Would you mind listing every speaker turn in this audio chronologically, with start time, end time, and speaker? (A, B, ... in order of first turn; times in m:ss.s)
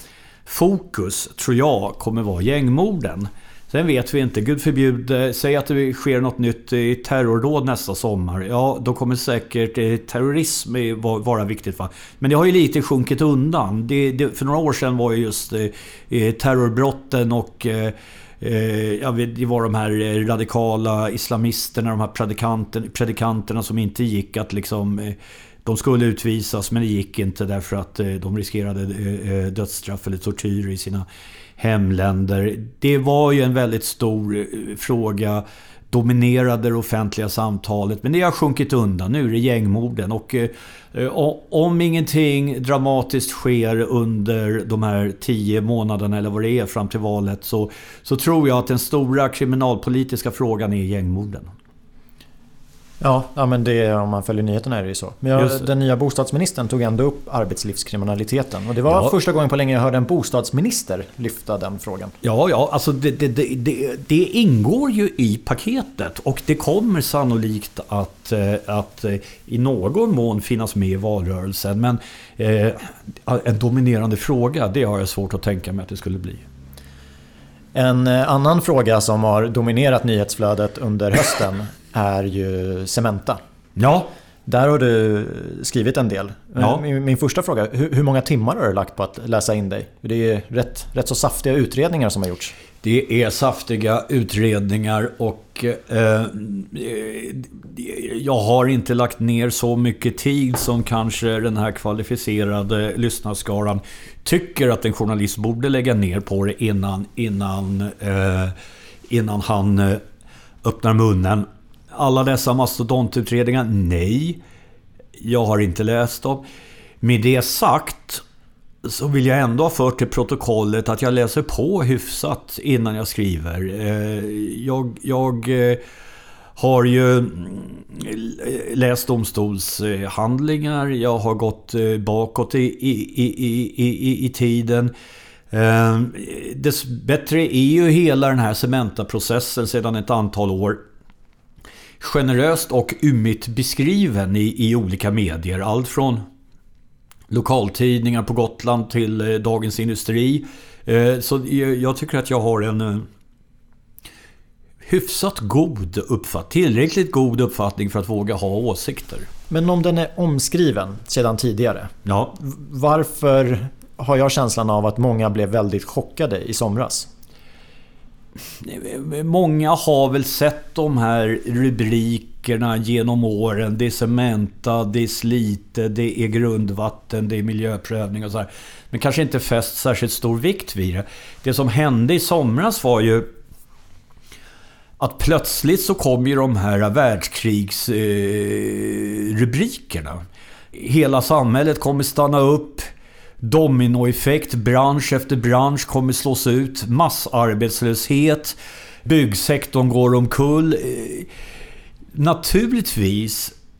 0:00.5-0:31.1 A
0:31.6-0:51.5 A
0:53.0-1:02.1 B
0:55.4-0:55.7 A
1:02.2-1:16.5 A
1:17.7-1:23.4 B
1:23.8-1:24.1 A
1:24.5-1:32.6 B
1:26.6-1:26.8 A
1:32.8-1:48.6 A
1:49.1-1:50.0 A
1:50.6-1:54.4 A
1:55.2-1:56.4 A
1:57.0-1:58.2 A
1:58.8-2:05.8 A
2:06.6-2:14.9 A
2:15.5-2:20.8 A
2:22.0-2:26.2 A
2:27.3-2:33.1 A
2:34.8-2:39.3 A
2:39.5-2:47.1 B
2:42.0-2:42.4 A
2:48.6-3:03.3 A
3:05.0-3:10.2 A
3:10.7-3:12.8 A
3:13.4-3:21.3 A
3:22.1-3:23.5 A